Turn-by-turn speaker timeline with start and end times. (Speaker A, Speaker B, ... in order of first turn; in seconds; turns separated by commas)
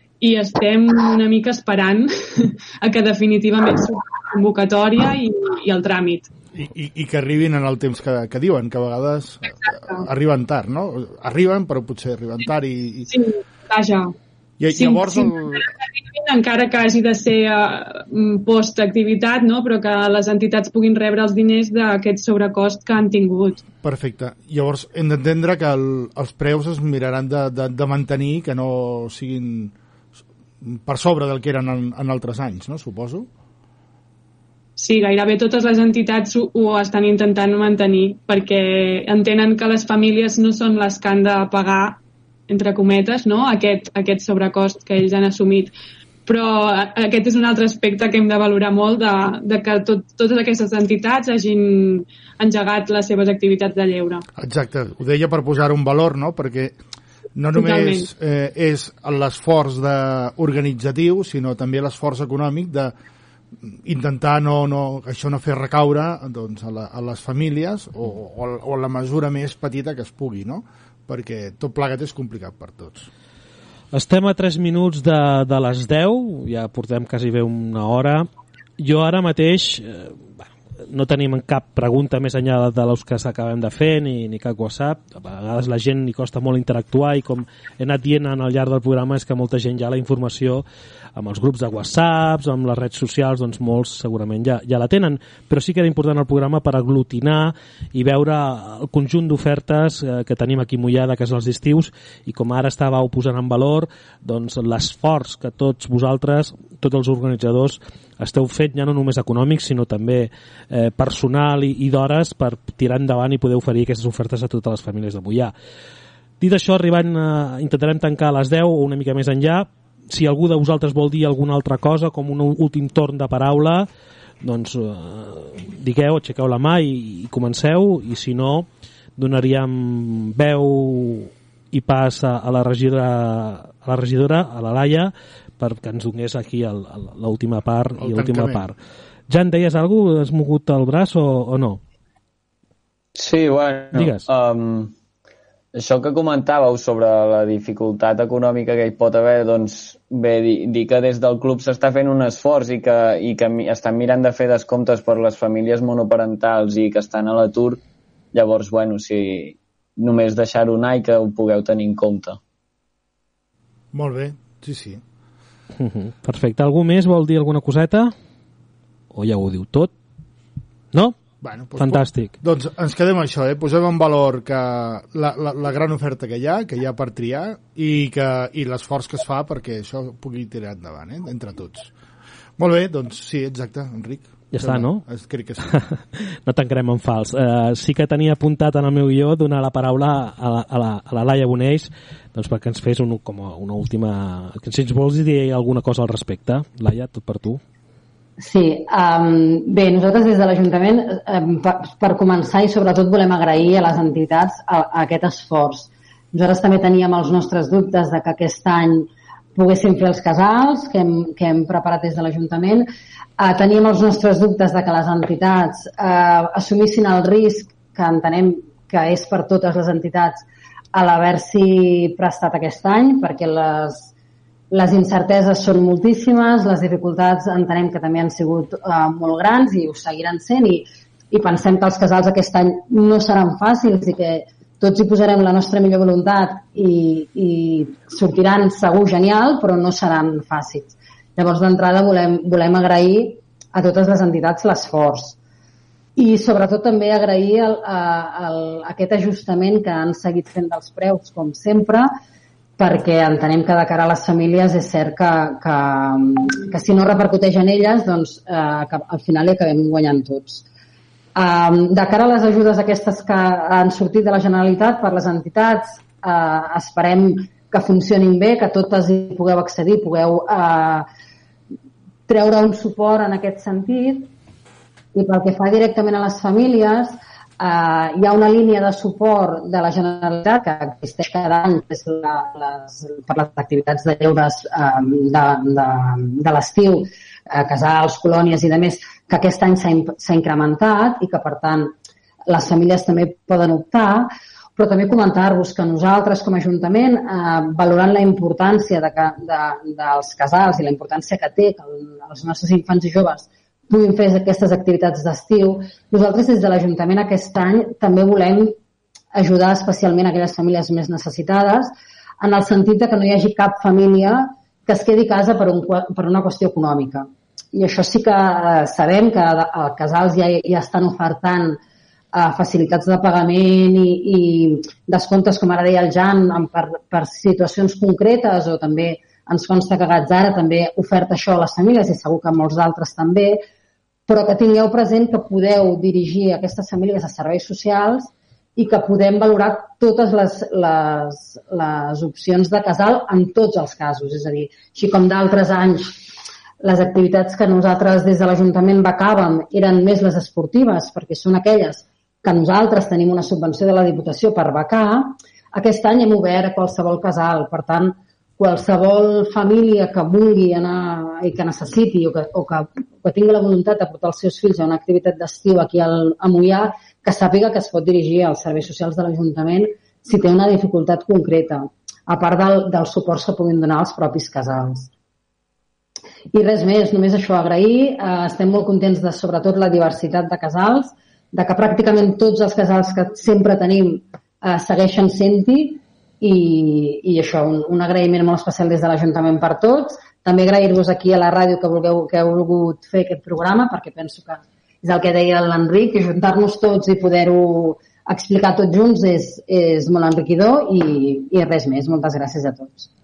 Speaker A: 0.2-6.3, Speaker B: 6.6-13.1, Speaker A: 13.1-14.1, Speaker B: 14.6-15.7, Speaker A: 14.7-23.6, Speaker B: 23.8-29.7, Speaker B: 30.6-33.3, Speaker A: 34.8-45.7, Speaker A: 46.2-54.2, Speaker B: 54.4-56.8, Speaker B: 57.4-62.9, Speaker A: 57.5-58.1, Speaker B: 63.6-73.1, Speaker C: 73.9-78.3, Speaker C: 78.8-115.5, Speaker C: 116.4-123.9, Speaker C: 124.4-138.7, Speaker B: 138.0-138.7, Speaker C: 139.3-141.8, Speaker D: 143.1-144.9, Speaker C: 143.9-144.3, Speaker D: 145.7-157.8, Speaker D: 158.3-162.4, Speaker B: 163.9-165.0, Speaker C: 165.8-168.1, Speaker C: 169.1-169.9, Speaker C: 170.9-171.2, Speaker B: 171.4-181.9, Speaker C: 171.8-172.3, Speaker B: 182.6-185.8, Speaker C: 184.5-185.0, Speaker C: 185.7-197.6, Speaker E: 198.4-220.4, Speaker E: 220.9-224.1, Speaker E: 224.7-245.4, Speaker E: 246.2-252.1, Speaker E: 252.8-260.6, Speaker E: 261.3-271.1, Speaker E: 272.3-274.3, Speaker E: 275.1-291.9, Speaker E: 292.5-308.8, Speaker E: 309.3-321.8, Speaker E: 322.3-333.6, Speaker E: 334.3-346.3, Speaker E: 346.8-375.1, Speaker E: 376.5-403.1